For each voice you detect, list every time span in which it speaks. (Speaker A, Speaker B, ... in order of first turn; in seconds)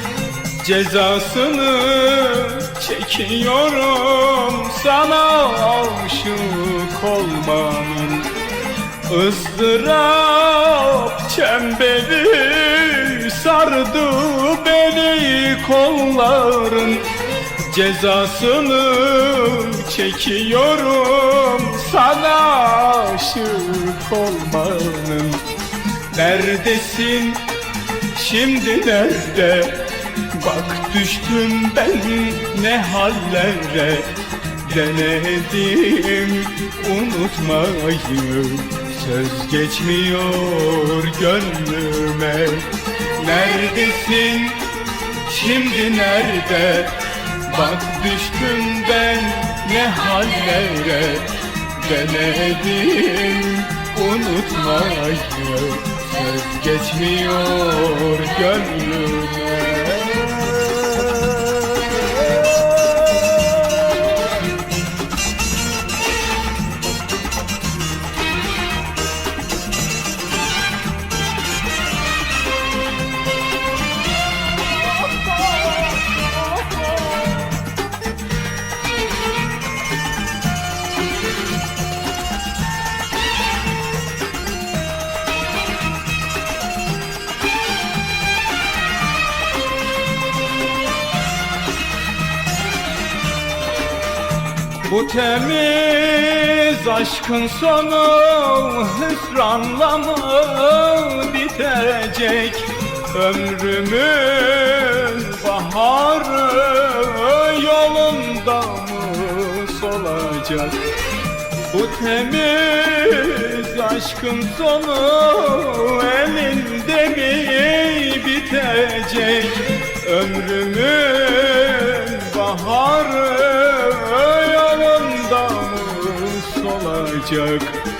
Speaker A: 0.5-8.3, 9.1-25.5, 26.1-27.5, 28.1-62.0, 62.6-63.5, 76.6-76.9, 94.8-110.9, 111.7-127.8